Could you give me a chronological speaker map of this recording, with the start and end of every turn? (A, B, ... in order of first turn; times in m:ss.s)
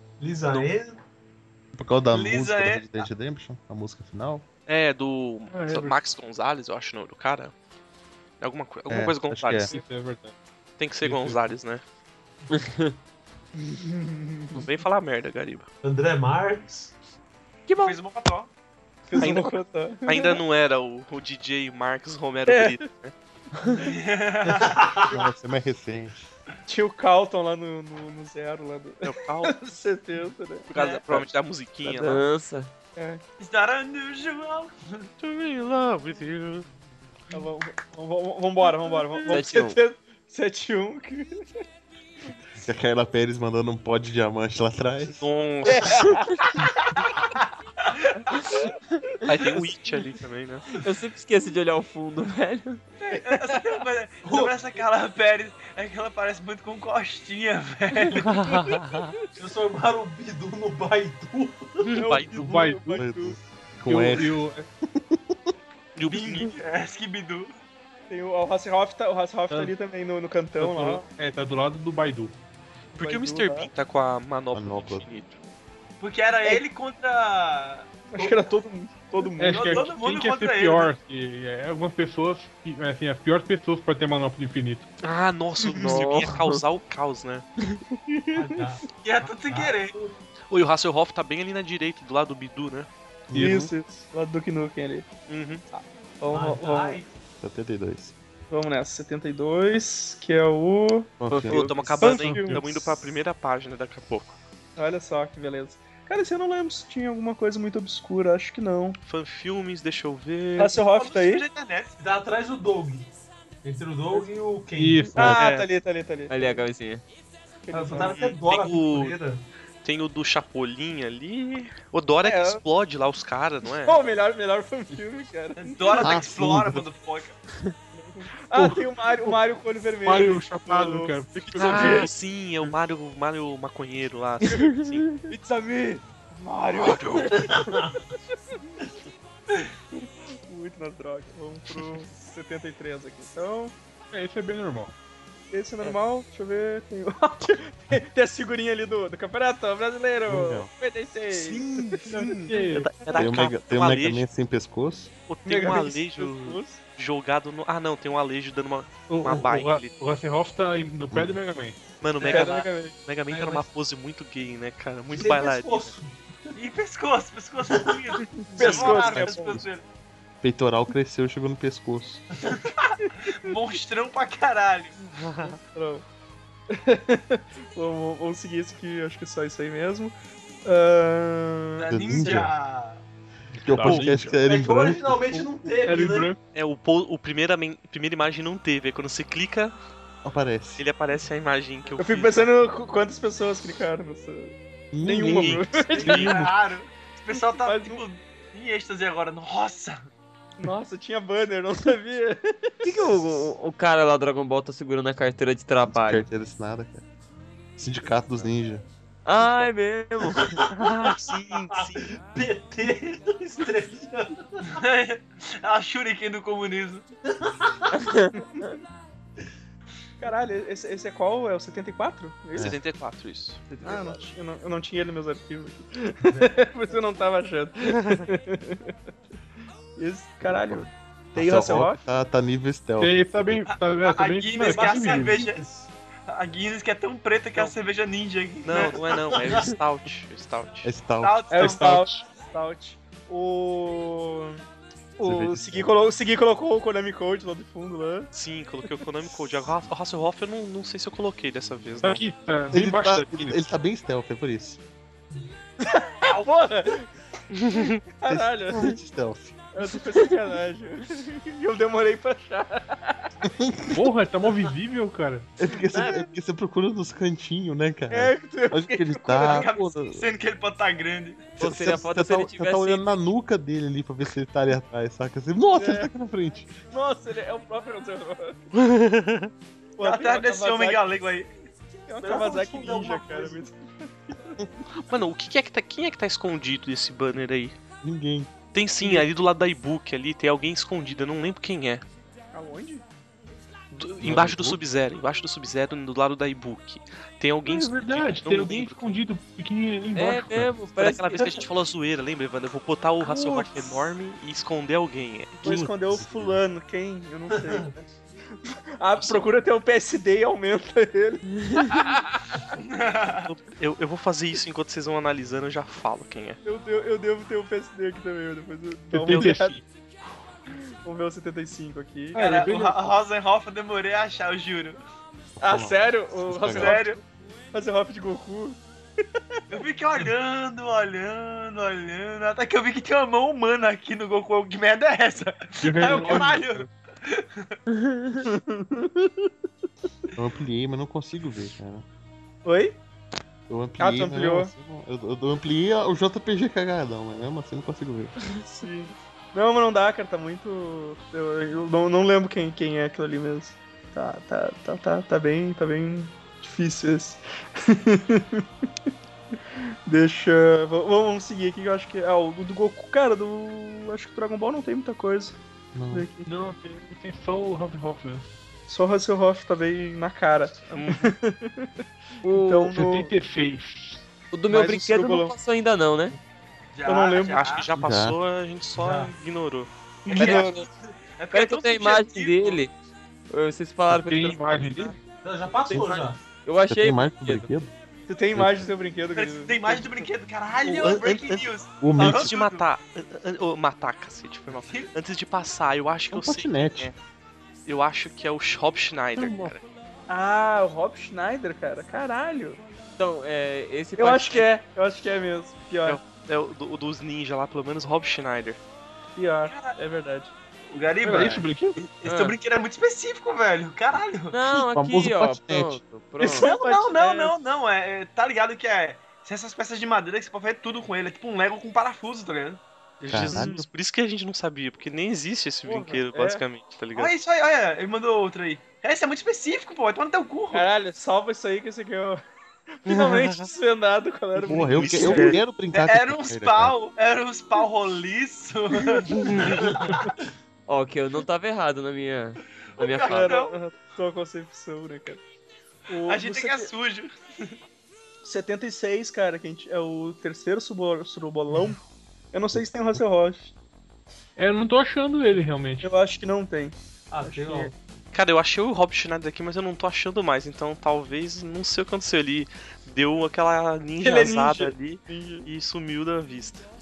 0:00.2-0:01.0 A
0:01.7-0:04.4 B
0:02.1-0:03.0 C
0:04.7-0:07.5 D
0:05.5-0:06.0 E
0:08.4-0:09.8 D
0:08.9-0:09.7 B
0:09.7-0:10.3 E
0:10.8-0:11.8 D
0:11.0-0:11.4 E
0:12.5-0:12.9 F
0:13.6-0:14.6 G
0:14.5-0:15.7 D
0:15.8-0:16.9 A
0:17.7-0:18.0 D
0:17.7-0:18.5 C
0:19.1-0:20.4 G
0:19.2-0:19.5 D
0:20.0-0:23.1 D
0:22.5-0:22.8 G
0:23.8-0:24.7 C
0:24.4-0:25.2 A
0:25.1-0:26.2 B
0:26.7-0:30.7 G
0:29.0-0:29.6 D
0:30.7-0:32.2 D
0:30.7-0:31.3 C
0:31.8-0:32.7 F
0:33.0-0:33.2 G
0:33.4-0:35.1 C
0:35.2-0:36.7 D
0:37.3-0:41.4 G
0:39.2-0:39.8 F
0:42.6-0:45.3 B
0:45.2-0:46.2 D
0:45.6-0:46.4 G
0:49.2-0:50.7 D
0:50.8-0:52.8 F
0:53.0-0:58.3 C
0:53.0-0:53.7 G
0:54.2-0:54.5 A
0:58.2-0:59.1 D
0:58.5-0:58.9 G
0:59.4-1:01.9 A
1:01.8-1:02.4 D
1:01.9-1:03.4 G
1:02.3-1:03.0 E
1:03.0-1:05.5 B
1:03.8-1:04.6 E
1:06.0-1:06.5 D
1:06.1-1:07.5 C
1:08.1-1:11.0 G
1:10.6-1:12.3 E
1:12.9-1:13.7 G
1:13.0-1:15.4 D
1:14.5-1:15.0 B
1:16.0-1:17.9 C
1:18.1-1:19.9 G
1:19.4-1:24.9 E
1:19.5-1:20.9 C
1:25.0-1:27.4 D
1:25.7-1:26.0 G
1:25.8-1:26.6 F
1:28.1-1:28.6 G
1:28.3-1:30.1 A
1:29.0-1:30.0 C
1:30.5-1:32.9 D
1:33.3-1:33.7 B
1:33.3-1:33.6 E
1:33.3-1:35.1 G
1:35.3-1:35.6 D
1:35.7-1:37.0 G
1:36.3-1:37.1 A
1:37.4-1:38.1 B
1:38.5-1:41.2 G
1:41.2-1:41.7 B
1:41.4-1:42.0 F
1:41.5-1:44.4 D
1:42.0-1:42.6 G
1:42.0-1:42.7 E
1:44.8-1:49.0 G
1:49.0-1:50.8 D
1:50.6-1:51.4 G
1:50.9-1:51.9 C
1:52.0-1:53.1 A
1:53.6-1:55.2 A
1:54.8-1:55.4 E
1:55.1-1:56.6 G
1:55.2-1:55.7 D
1:56.3-1:57.0 F
1:57.6-1:58.2 G
1:57.7-1:59.4 A
1:58.0-1:59.2 D
1:59.8-2:04.0 D
2:02.2-2:02.6 G
2:03.8-2:06.1 G
2:05.6-2:07.4 C
2:06.0-2:06.9 B
2:08.0-2:12.1 G
2:08.5-2:09.4 E
2:10.0-2:12.1 E
2:11.5-2:15.1 D
2:14.6-2:15.2 F
2:15.3-2:17.8 G
2:16.8-2:17.4 D
2:17.3-2:18.0 A
2:20.5-2:23.7 G
2:24.1-2:24.9 E
2:25.5-2:33.2 G
2:30.3-2:30.7 B
2:31.3-2:34.2 D
2:32.1-2:32.9 E
2:33.1-2:35.1 B
2:35.3-2:39.9 D
2:35.4-2:36.8 G
2:39.1-2:41.8 E
2:41.1-2:41.4 B
2:42.0-2:45.9 D
2:42.2-2:42.5 A
2:42.2-2:42.9 G
2:43.3-2:43.6 A
2:45.1-2:46.6 A
2:46.5-2:49.8 C
2:47.6-2:48.0 A
2:48.2-2:49.6 G
2:48.6-2:49.4 D
2:50.4-2:52.2 B
2:53.3-2:55.0 C
2:55.2-2:55.6 D
2:55.4-2:56.0 G
2:56.7-3:02.4 G
3:01.8-3:03.0 C
3:01.9-3:02.5 B
3:03.6-3:04.3 E
3:03.6-3:05.4 B
3:03.8-3:06.3 A
3:05.8-3:06.4 E
3:06.5-3:09.8 D
3:10.2-3:10.8 B
3:10.8-3:12.5 D
3:12.0-3:16.3 G
3:14.9-3:16.5 B
3:15.3-3:16.4 D
3:16.0-3:20.1 C
3:17.3-3:18.0 G
3:20.6-3:22.9 G
3:22.8-3:26.2 F
3:25.8-3:27.0 B
3:27.8-3:28.8 B
3:29.2-3:30.7 F
3:30.6-3:34.8 A
3:30.7-3:32.2 D
3:34.7-3:37.0 C
3:37.4-3:37.7 A
3:38.0-3:38.4 F
3:38.3-3:38.6 G
3:40.2-3:42.8 G
3:42.5-3:42.8 B
3:42.6-3:43.6 D
3:43.8-3:48.9 G
3:43.8-3:44.2 B
3:46.3-3:46.6 A
3:50.0-3:52.0 G
3:50.5-3:50.8 B
3:51.3-3:53.7 B
3:53.0-3:55.4 E
3:53.9-3:55.6 C
3:54.6-3:55.9 A
3:56.3-3:59.0 C
3:58.6-4:00.9 D
3:59.1-3:59.7 A
4:00.8-4:01.8 B
4:01.2-4:01.9 C
4:01.5-4:04.6 G
4:01.6-4:02.2 E
4:05.2-4:08.3 G
4:05.2-4:05.9 B
4:08.3-4:12.2 D
4:12.0-4:13.6 E
4:12.7-4:14.8 B
4:15.8-4:17.1 G
4:17.7-4:18.0 D
4:17.7-4:19.0 G
4:18.2-4:19.6 B
4:19.7-4:23.3 G
4:23.4-4:24.1 B
4:23.9-4:25.5 E
4:25.6-4:30.3 B
4:25.8-4:26.2 G
4:28.1-4:29.7 G
4:29.4-4:31.5 C
4:31.6-4:33.0 F
4:31.6-4:36.7 B
4:35.7-4:36.1 G
4:36.9-4:38.6 G
4:38.7-4:39.5 D
4:40.0-4:41.0 G
4:40.0-4:41.5 C
4:42.1-4:44.6 G
4:42.2-4:43.7 A
4:45.1-4:47.8 D
4:48.0-4:48.5 B
4:48.7-4:52.0 D
4:52.5-4:53.0 G
4:54.0-4:59.1 D
4:54.2-4:54.8 B
4:57.6-5:00.7 E
5:00.1-5:01.6 F
5:00.9-5:05.9 D
5:03.2-5:04.0 G
5:05.6-5:08.1 G
5:05.6-5:06.6 B
5:07.5-5:07.9 A
5:08.6-5:12.2 G
5:09.2-5:09.4 D
5:12.8-5:13.5 C
5:13.3-5:16.6 D
5:16.6-5:19.8 G
5:19.1-5:19.8 E
5:21.0-5:22.5 G
5:22.3-5:23.0 E
5:22.3-5:25.0 C
5:25.6-5:27.0 B
5:25.6-5:27.2 G
5:26.7-5:27.2 C
5:27.7-5:28.8 G
5:29.7-5:37.8 C
5:35.8-5:36.8 E
5:36.0-5:36.6 A
5:38.0-5:38.4 F
5:38.4-5:39.5 G
5:40.3-5:42.0 B
5:42.6-5:43.0 G
5:43.7-5:48.4 B
5:44.0-5:44.7 G
5:48.7-5:58.6 G
6:00.1-6:05.6 G
6:05.9-6:06.3 B
6:06.1-6:06.5 G
6:06.4-6:08.5 E
6:08.9-6:11.9 G
6:10.9-6:11.3 D
6:12.4-6:14.2 E
6:12.5-6:13.3 G
6:14.5-6:16.4 F
6:14.7-6:15.5 G
6:16.9-6:17.9 C
6:17.0-6:17.6 G
6:17.4-6:19.9 D
6:17.9-6:18.4 B
6:18.9-6:19.3 A
6:20.2-6:20.7 G
6:20.3-6:20.8 C
6:20.3-6:20.9 F
6:21.4-6:22.8 C
6:21.5-6:22.9 F
6:23.5-6:25.1 F
6:24.1-6:25.2 E
6:25.4-6:26.4 A
6:25.9-6:26.2 E
6:25.9-6:27.7 F
6:26.9-6:27.9 B
6:28.3-6:30.2 G
6:28.5-6:28.8 B
6:29.3-6:32.8 C
6:30.8-6:37.1 D
6:32.0-6:32.5 B
6:34.8-6:35.1 C
6:36.3-6:37.1 B
6:37.8-6:39.8 D
6:39.4-6:39.8 B
6:40.3-6:42.8 G
6:43.2-6:44.7 F
6:44.2-6:46.2 G
6:46.0-6:48.8 D
6:49.4-6:50.5 G
6:49.6-6:50.0 C
6:50.9-6:51.7 C
6:51.2-6:52.0 E
6:52.2-6:54.6 C
6:52.2-6:52.6 F
6:54.5-6:56.7 F
6:54.7-6:56.3 B
6:56.4-6:57.6 G
6:56.4-7:02.8 C
7:03.2-7:07.3 D
7:03.3-7:03.8 B
7:05.8-7:06.6 G
7:07.1-7:10.9 C
7:10.7-7:12.4 G
7:12.9-7:15.6 G
7:13.1-7:13.7 D
7:14.6-7:17.0 B
7:14.8-7:15.6 D
7:15.9-7:19.8 C
7:19.3-7:19.8 D
7:19.6-7:20.1 A
7:20.9-7:23.6 F
7:23.0-7:23.8 C
7:23.2-7:25.4 G
7:26.1-7:26.9 G
7:26.2-7:27.7 C
7:28.4-7:32.0 G
7:32.5-7:33.7 G
7:34.6-7:36.1 E
7:36.0-7:37.9 G
7:37.3-7:38.0 A
7:38.3-7:46.8 D
7:44.2-7:45.7 G